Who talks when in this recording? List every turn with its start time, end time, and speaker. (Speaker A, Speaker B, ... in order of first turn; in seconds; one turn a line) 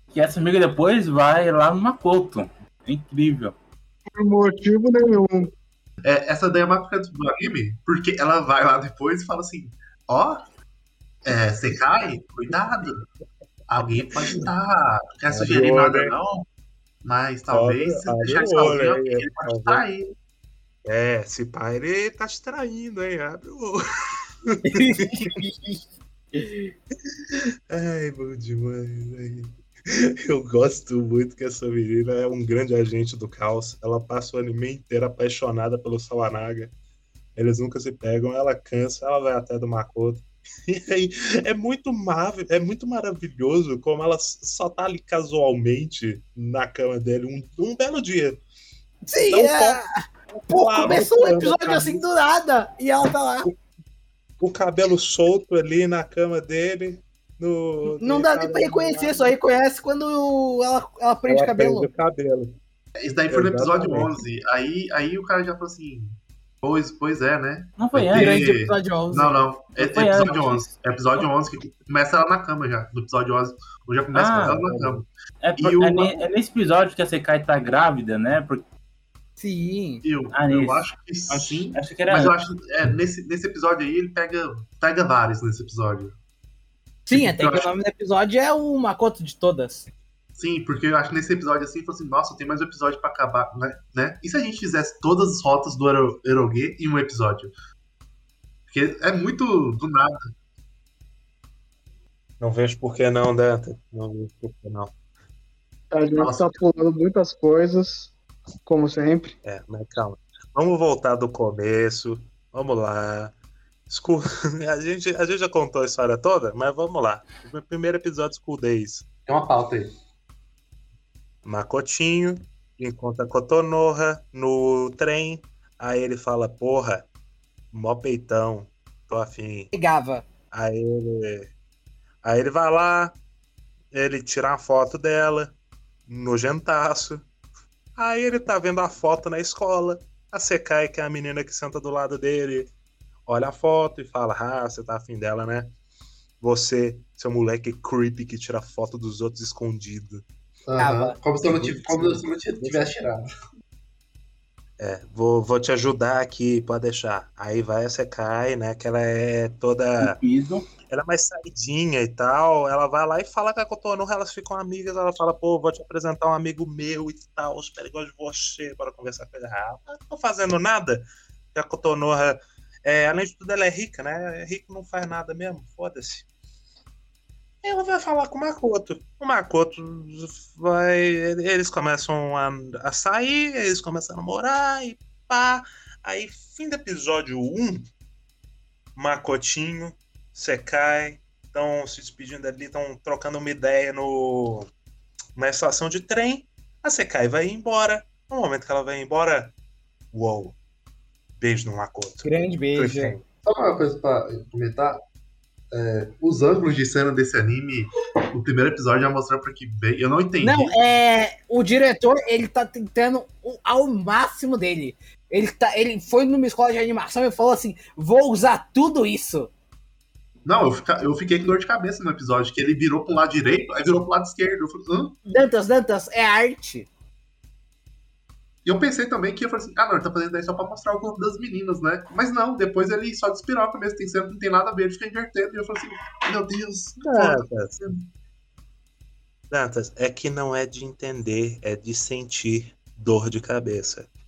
Speaker A: 0.1-3.5
Speaker B: 4.1-5.5
Speaker C: 6.0-10.4
Speaker C: 11.2-13.1
Speaker C: 13.7-16.5
Speaker D: 13.9-14.5
Speaker D: 15.3-16.2
Speaker C: 17.0-20.1
Speaker D: 17.5-19.9
Speaker D: 20.9-23.8
Speaker D: 24.5-25.3
Speaker E: 24.7-25.8
Speaker E: 26.3-26.7
Speaker D: 27.3-36.7
Speaker D: 37.4-48.4
Speaker E: 49.1-49.9
Speaker D: 49.2-49.8
Speaker D: 50.4-52.1
Speaker E: 50.5-53.5
Speaker D: 54.4-59.3
Speaker E: 57.9-61.9
Speaker D: 61.3-62.6
Speaker C: 63.0-75.1
Speaker D: 63.3-64.2
Speaker A: 67.8-68.6
Speaker E: 68.1-69.4
Speaker A: 69.8-71.2
Speaker A: 74.1-74.6
Speaker D: 74.3-75.0
Speaker A: 75.4-78.7
Speaker C: 75.6-76.2
Speaker E: 79.4-80.0
Speaker C: 80.0-86.2
Speaker A: 80.3-82.3
Speaker E: 87.1-89.9
Speaker C: 87.1-87.7
Speaker C: 90.4-97.5
Speaker C: 98.7-100.1
Speaker D: 102.4-104.9
Speaker B: 105.9-108.1
Speaker C: 106.2-106.5
Speaker B: 108.7-109.3
Speaker D: 109.4-113.3
Speaker D: 113.9-119.1
Speaker C: 119.3-119.9
Speaker D: 121.4-127.1
Speaker D: 127.7-129.7
Speaker E: 129.7-130.3
Speaker D: 130.5-131.5
Speaker D: 132.2-133.2
Speaker D: 133.9-137.3
Speaker D: 138.0-142.7
Speaker D: 143.3-145.7
Speaker D: 146.4-150.2
Speaker C: 150.7-153.3
Speaker E: 150.8-151.2
Speaker D: 151.4-152.9
Speaker D: 154.8-160.2
Speaker A: 160.0-160.7
Speaker D: 160.9-176.3
Speaker D: 177.6-187.9
Speaker D: 188.9-194.7
Speaker D: 195.3-199.6
Speaker D: 200.1-200.6
Speaker D: 201.4-203.2
Speaker E: 202.2-203.2
Speaker C: 203.4-205.0
Speaker C: 205.7-210.8
Speaker E: 210.4-219.5
Speaker C: 220.4-225.2
Speaker E: 225.3-226.9
Speaker C: 228.7-238.1
Speaker D: 237.0-237.8
Speaker D: 239.5-244.1